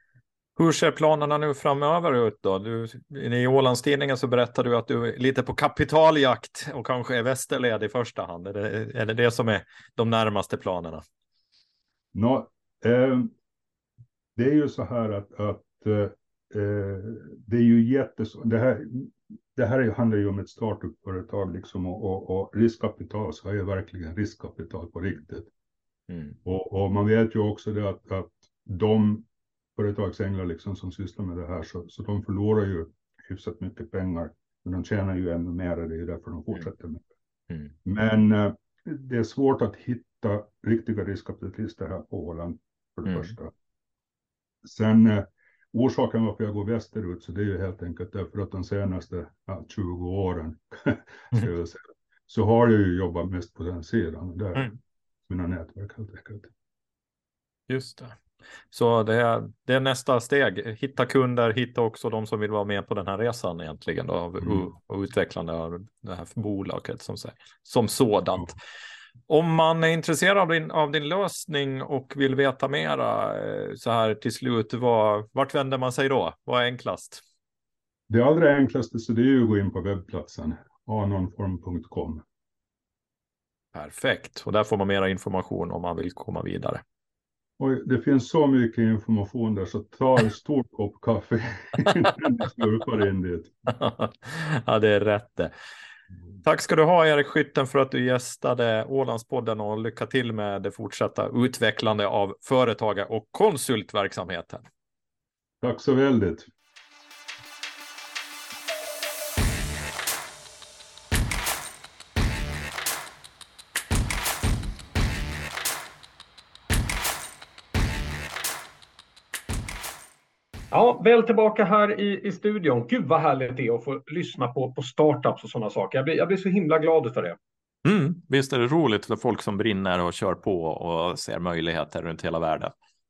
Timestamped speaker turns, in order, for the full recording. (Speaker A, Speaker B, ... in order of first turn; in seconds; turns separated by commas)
Speaker A: 0.6-11.0, Speaker B: 12.1-13.3, Speaker B: 14.4-25.5, Speaker A: 26.1-26.4, Speaker B: 26.4-37.1, Speaker B: 37.9-43.5, Speaker A: 43.1-43.3, Speaker B: 44.6-54.7, Speaker B: 55.3-56.5, Speaker A: 57.7-58.2, Speaker A: 58.7-68.6, Speaker A: 69.3-77.2, Speaker B: 78.1-82.2, Speaker A: 83.7-86.8, Speaker B: 87.6-93.5, Speaker A: 93.7-95.5, Speaker A: 96.4-104.7, Speaker B: 105.6-106.5, Speaker C: 120.7-127.4, Speaker A: 127.8-132.7